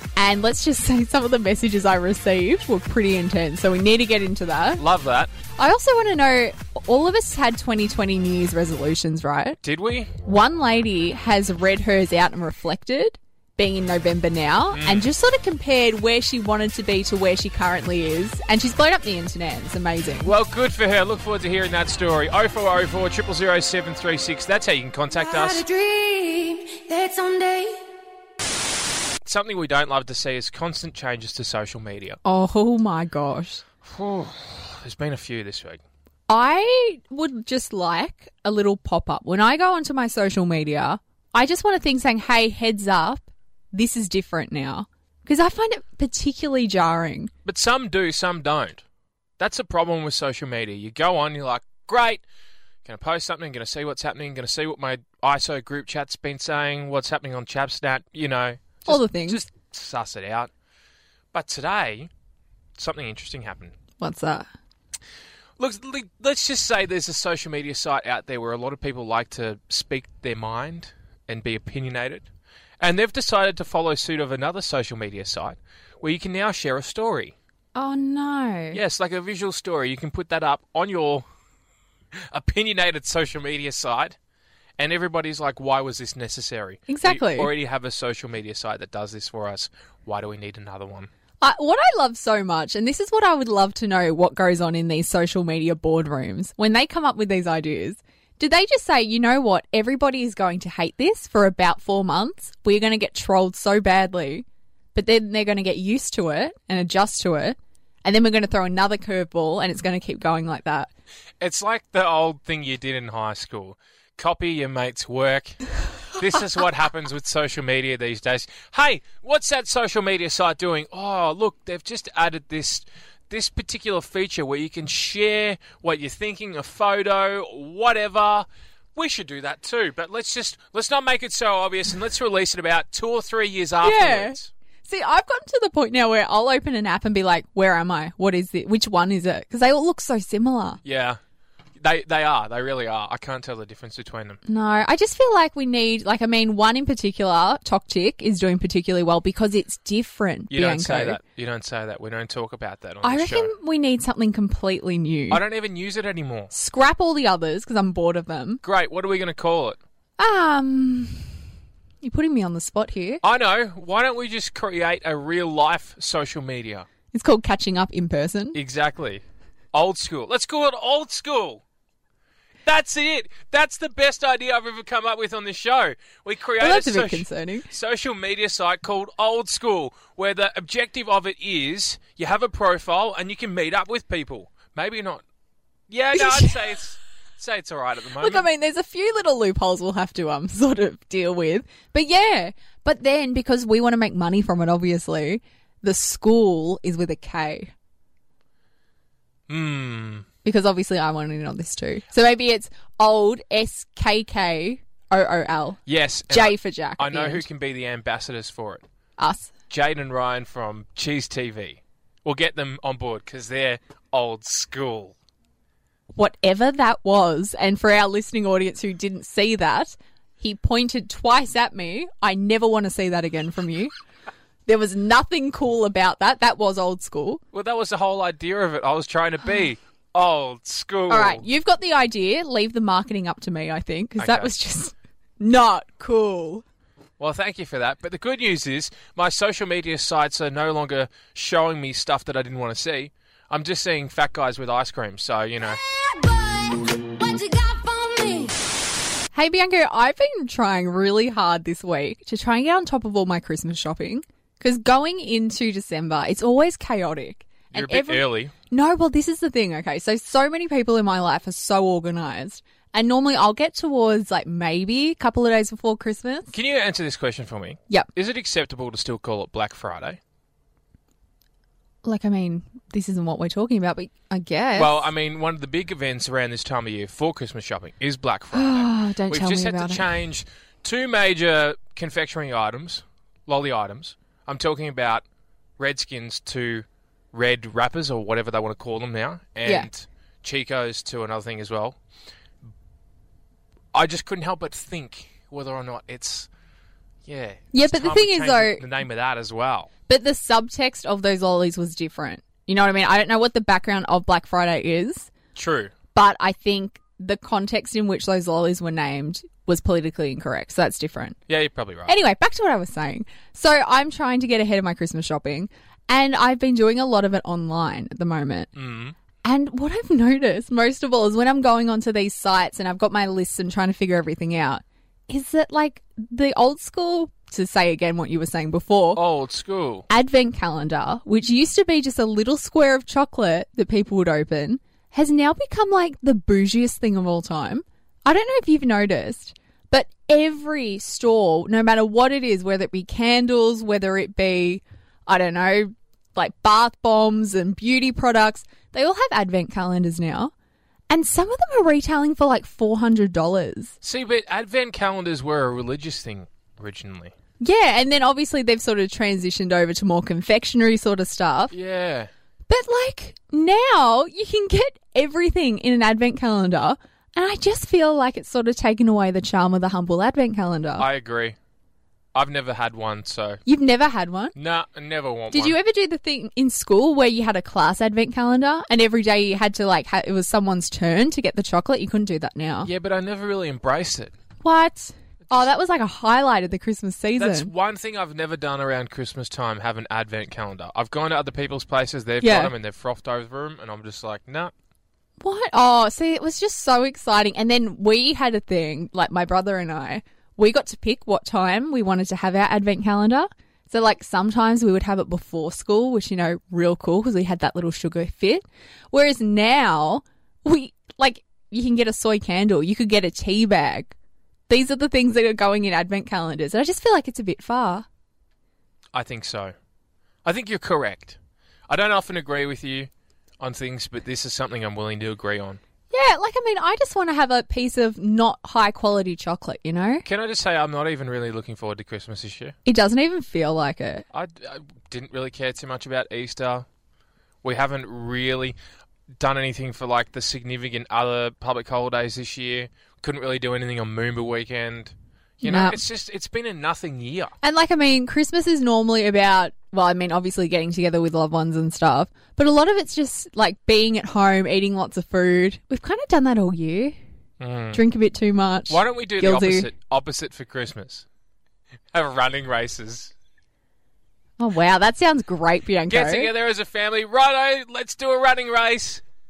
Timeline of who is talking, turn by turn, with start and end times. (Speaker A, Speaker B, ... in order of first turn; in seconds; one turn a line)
Speaker A: 0.1-4.8
Speaker B: 4.8-5.3
Speaker A: 5.6-9.6
Speaker B: 9.6-10.1
Speaker A: 10.2-20.3
Speaker B: 14.7-15.1
Speaker B: 20.2-25.6
Speaker A: 25.1-27.8
Speaker B: 29.2-32.2
Speaker A: 32.2-33.6
Speaker B: 33.8-35.8
Speaker A: 36.3-47.3
Speaker B: 47.5-48.8
Speaker B: 49.4-52.2
Speaker B: 52.8-60.5
Speaker A: 58.9-59.4
Speaker B: 61.3-62.1
Speaker B: 62.8-63.7
Speaker A: 64.0-64.5
Speaker B: 65.6-72.2
Speaker B: 72.8-77.3
Speaker A: 77.7-78.8
Speaker B: 78.7-81.2
Speaker B: 82.3-84.2
Speaker B: 84.8-91.1
Speaker A: 86.9-87.5
Speaker A: 91.4-110.9
Speaker B: 111.4-134.5
Speaker A: 133.8-140.8
Speaker B: 140.8-141.2
Speaker B: 141.8-144.4
Speaker A: 144.4-151.2
Speaker B: 150.5-153.5
Speaker A: 153.0-155.4
Speaker B: 155.3-156.5
Speaker A: 156.5-158.6
Speaker B: 158.6-159.8
Speaker A: 160.2-161.3
Speaker A: 162.0-163.2
Speaker B: 163.2-166.8
Speaker A: 167.1-168.6
Speaker B: 168.5-171.6
Speaker B: 172.6-185.2
Speaker A: 176.6-177.7
Speaker B: 185.9-188.4
Speaker A: 186.1-186.6
Speaker A: 188.2-197.7
Speaker B: 199.5-200.2
Speaker A: 200.4-205.8
Speaker B: 205.9-208.8
Speaker A: 206.3-207.4
Speaker A: 209.2-209.5
Speaker B: 209.7-215.1
Speaker A: 216.1-223.9
Speaker A: 224.7-227.4
Speaker B: 227.5-231.4
Speaker A: 231.1-236.6
Speaker B: 234.2-234.5
Speaker B: 237.2-245.8
Speaker C: 245.8-248.6
Speaker A: 249.3-266.5
Speaker B: 257.7-258.5
Speaker B: 266.5-270.2
Speaker A: 272.0-275.1
Speaker B: 274.8-285.2
Speaker A: 278.5-280.1
Speaker B: 285.8-292.0
Speaker B: 293.9-296.5
Speaker B: 297.2-299.9
Speaker A: 297.7-298.8
Speaker A: 300.1-305.3
Speaker B: 305.5-305.9
Speaker A: 306.1-311.4
Speaker B: 311.5-312.1
Speaker A: 312.1-318.7
Speaker B: 318.7-319.1
Speaker A: 319.4-329.2
Speaker B: 329.1-330.1
Speaker A: 330.1-350.5
Speaker A: 351.1-353.9
Speaker B: 354.0-357.3
Speaker A: 357.6-361.7
Speaker B: 361.7-362.3
Speaker A: 362.7-371.1
Speaker B: 371.0-371.6
Speaker B: 372.3-373.6
Speaker A: 373.6-374.5
Speaker B: 374.5-375.8
Speaker A: 375.5-382.9
Speaker B: 382.8-384.3
Speaker A: 384.6-387.7
Speaker B: 387.4-394.7
Speaker A: 392.4-392.7
Speaker A: 395.4-414.1
Speaker A: 414.7-418.1
Speaker B: 419.1-419.7
Speaker B: 420.4-421.4
Speaker B: 421.9-423.1
Speaker B: 423.6-425.8
Speaker A: 426.1-430.2
Speaker B: 430.2-432.7
Speaker A: 432.8-434.2
Speaker B: 434.3-436.9
Speaker B: 437.6-438.8
Speaker B: 439.4-447.5
Speaker A: 445.6-446.0
Speaker A: 447.6-457.1
Speaker B: 457.6-458.0
Speaker A: 457.9-459.9
Speaker B: 458.9-461.2
Speaker B: 462.1-463.3
Speaker A: 464.6-466.5
Speaker B: 466.1-469.2